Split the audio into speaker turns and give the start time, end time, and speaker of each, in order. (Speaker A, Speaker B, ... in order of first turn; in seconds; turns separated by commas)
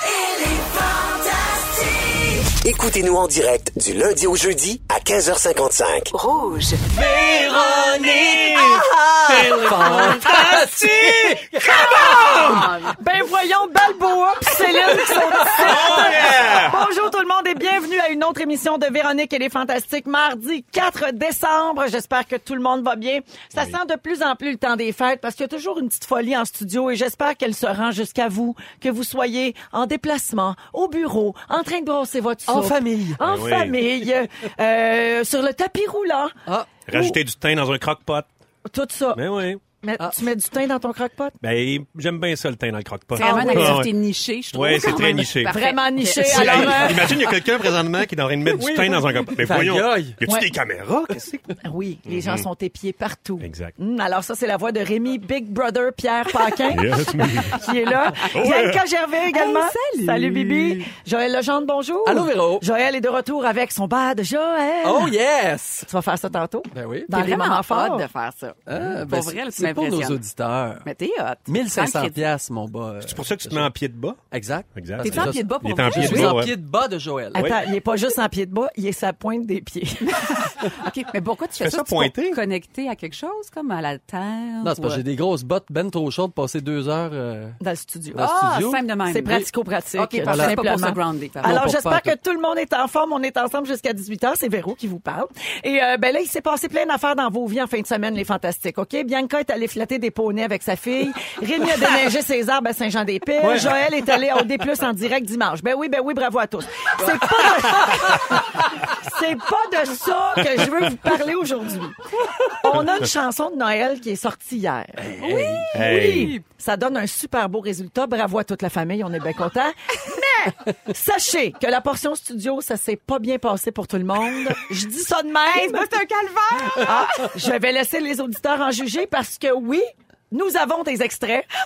Speaker A: 2.3-6.1, Speaker B: 6.1-6.8, Speaker C: 6.8-12.6, Speaker D: 7.9-12.6, Speaker B: 11.6-12.9, Speaker E: 12.0-12.2, Speaker E: 12.9-36.4, Speaker C: 14.6-16.2, Speaker D: 15.6-16.8, Speaker C: 32.5-33.2, Speaker D: 33.2-33.8, Speaker D: 36.9-38.3, Speaker E: 36.9-37.2, Speaker E: 38.7-41.4, Speaker D: 39.1-39.6, Speaker D: 41.4-44.0, Speaker B: 43.1-47.1, Speaker E: 43.2-43.9, Speaker D: 44.5-45.5, Speaker E: 45.5-47.3, Speaker D: 46.1-52.5, Speaker C: 48.5-50.1, Speaker E: 50.2-50.5, Speaker E: 51.6-65.1, Speaker D: 53.4-53.7, Speaker D: 56.7-57.6, Speaker D: 58.3-58.8, Speaker B: 59.3-60.6, Speaker C: 62.0-62.6, Speaker C: 64.8-65.9, Speaker E: 65.8-68.1, Speaker C: 66.7-67.1, Speaker B: 67.1-70.2, Speaker C: 68.7-70.8, Speaker B: 70.8-72.2, Speaker C: 71.5-73.7, Speaker D: 73.0-74.2, Speaker C: 74.3-77.5, Speaker D: 74.7-76.5, Speaker B: 75.0-76.4, Speaker E: 77.3-80.8, Speaker D: 77.3-77.6, Speaker B: 80.0-85.0, Speaker D: 81.6-82.4, Speaker C: 84.6-87.6, Speaker E: 87.6-88.3, Speaker C: 88.1-88.8, Speaker B: 88.2-91.6, Speaker E: 89.1-112.0, Speaker C: 90.2-90.6, Speaker C: 91.4-92.1, Speaker D: 103.4-103.8, Speaker E: 112.5-125.9, Speaker C: 115.0-115.7, Speaker B: 115.2-115.7, Speaker D: 115.7-116.3, Speaker B: 120.0-120.5, Speaker B: 125.5-127.0, Speaker E: 126.7-131.4